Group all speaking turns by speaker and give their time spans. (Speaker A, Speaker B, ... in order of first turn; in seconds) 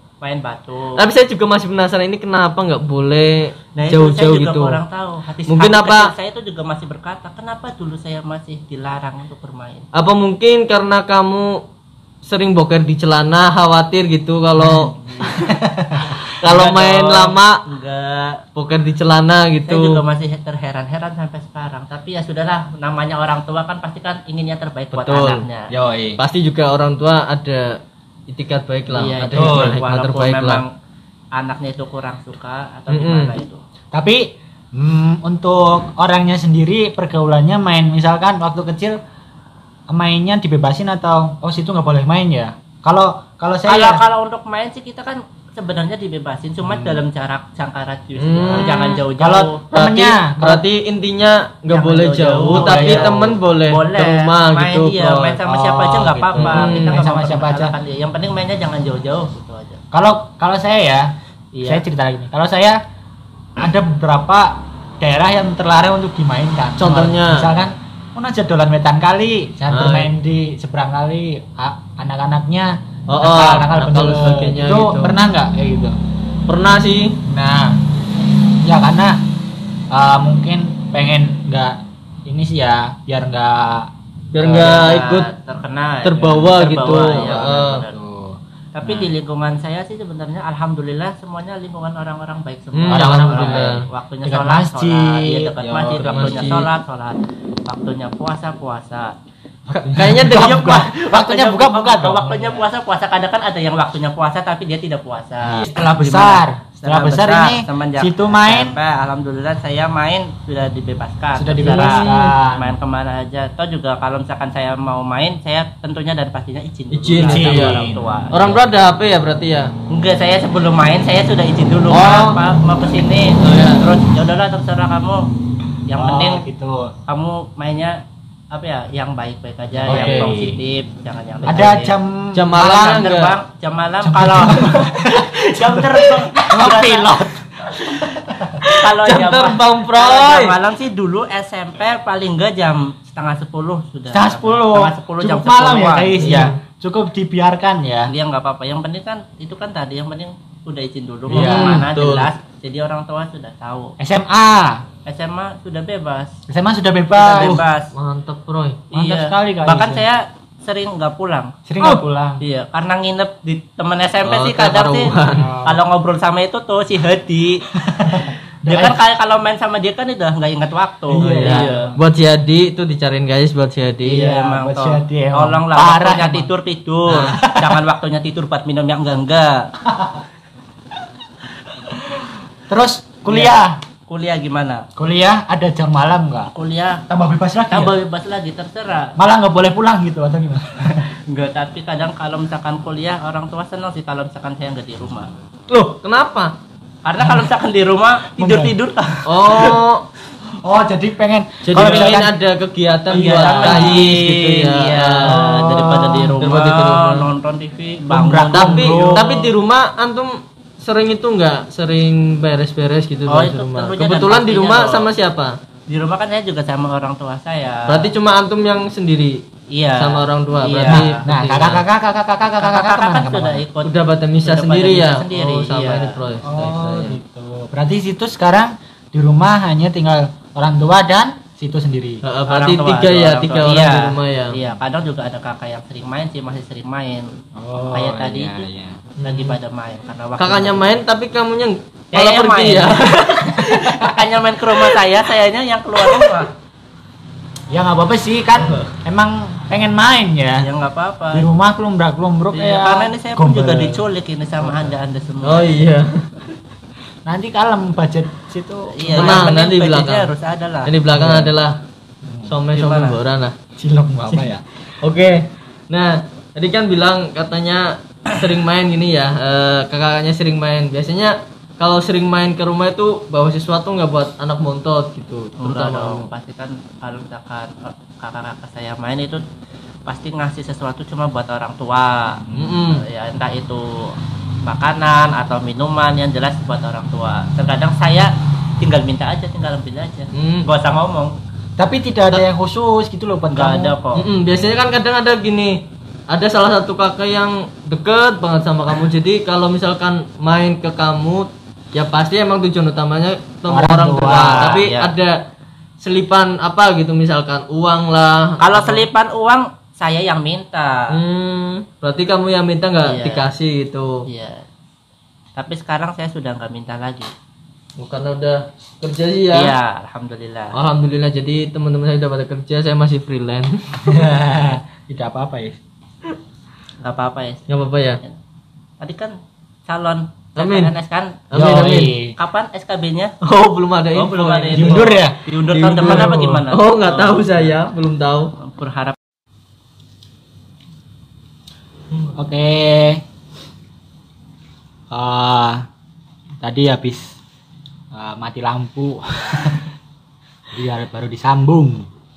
Speaker A: 0.2-1.0, 3.7-9.8, 14.6-15.4, 16.4-18.4, 19.7-25.7, 28.9-30.7, 31.3-33.6, 43.6-49.6, 51.7-59.8, 61.5-61.8, 84.5-88.0, 88.7-99.1, 100.7-118.6, 119.9-125.3, 125.9-126.4, 127.1-128.0, 128.5-131.9, 132.6-134.7, 135.4-137.1, 138.8-146.5, 148.1-153.9, 155.1-156.3, 157.1-157.9, 158.9-167.6, 168.7-171.9, 174.0-179.7, 183.2-183.6, 184.1-184.8, 186.5-187.0, 187.7-189.1, 191.3-195.3, 197.0-199.3, 201.8-202.1, 203.1-209.4, 213.3-215.1, 215.9-218.1, 219.7-221.2, 222.6-226.2, 232.5-237.3, 237.9-238.7, 239.2-241.0, 242.1-246.5, 250.6-251.5, 252.5-255.8, 258.9-260.9, 262.7-263.2, 275.6-279.4, 280.1-284.1, 284.6-291.3, 293.5-294.2, 304.5-305.1, 308.6-311.2, 313.0-313.5, 314.2-314.6, 315.6-317.3, 319.5-320.7, 327.0-328.4, 329.0-329.3, 329.9-333.3, 334.1-337.7, 338.6-339.2
Speaker B: 1.0-4.8, 5.5-6.1, 9.9-11.6, 12.2-15.5, 16.3-17.6, 18.5-20.0, 24.9-25.4, 26.2-30.6, 32.9-33.4, 48.2-49.0, 49.7-55.4, 56.4-57.0, 66.8-67.5, 69.7-70.1, 73.1-75.2, 76.5-77.2, 84.3-85.3, 86.0-87.8, 92.7-93.8, 95.7-96.7, 99.7-100.9, 111.6-112.3, 116.9-117.8, 118.3-119.7, 121.9-122.4, 123.4-123.8, 129.9-130.3, 132.3-133.4, 138.6-140.6, 146.2-146.5, 151.3-152.3, 157.9-158.8, 164.2-165.5, 171.2-174.3, 177.1-177.3, 195.7-196.5, 199.2-200.1, 201.7-205.4, 206.4-207.2, 208.5-215.6, 217.9-219.4, 220.0-221.8, 223.8-227.2, 232.2-234.6, 239.2-239.6, 240.4-244.1, 246.1-246.4, 255.4-256.2, 259.1-260.3, 260.8-261.8, 262.4-263.6, 265.0-276.3, 282.5-283.0, 290.3-290.7, 294.1-305.4, 306.0-309.1, 311.1-314.2, 318.0-319.7, 320.7-324.1, 327.7-328.2, 330.6-330.9, 331.5-332.1, 333.4-335.2, 335.7-338.5
Speaker C: 15.3-16.2, 25.7-26.2, 29.3-29.8, 33.9-39.0, 39.9-44.0, 46.6-47.0, 48.6-50.6, 52.5-53.4, 55.4-57.7, 59.9-62.8, 63.6-76.0, 77.2-77.8, 78.6-79.2, 79.9-84.8, 86.2-89.1, 92.9-96.5, 99.7-102.6, 105.4-108.8, 111.3-112.7, 117.2-118.0, 126.0-126.9, 129.8-130.6, 131.4-133.0, 134.0-138.7, 144.1-148.1, 151.3-151.9, 154.0-154.8, 156.5-157.6, 158.9-160.0, 161.7-162.4, 165.3-165.8, 167.7-169.0, 171.1-171.9, 174.2-176.5, 177.3-177.8, 179.8-180.2, 181.9-183.8, 184.9-186.5, 187.1-187.9, 189.2-191.1, 197.2-197.5, 198.3-198.7, 199.5-199.8, 200.6-202.3, 203.1-204.0, 205.2-206.4, 208.1-209.4, 220.9-223.6, 226.4-232.2, 237.6-239.1, 247.7-250.7, 251.3-254.0, 257.2-259.6, 261.1-261.5, 262.2-262.5, 263.8-264.6, 282.4-282.8, 291.8-293.9, 303.7-304.8, 324.1-325.8, 331.5-332.3, 334.7-335.4, 336.0-336.6, 342.3-343.2, 345.1-345.9, 346.6-347.4, 348.1-349.9, 350.7-352.1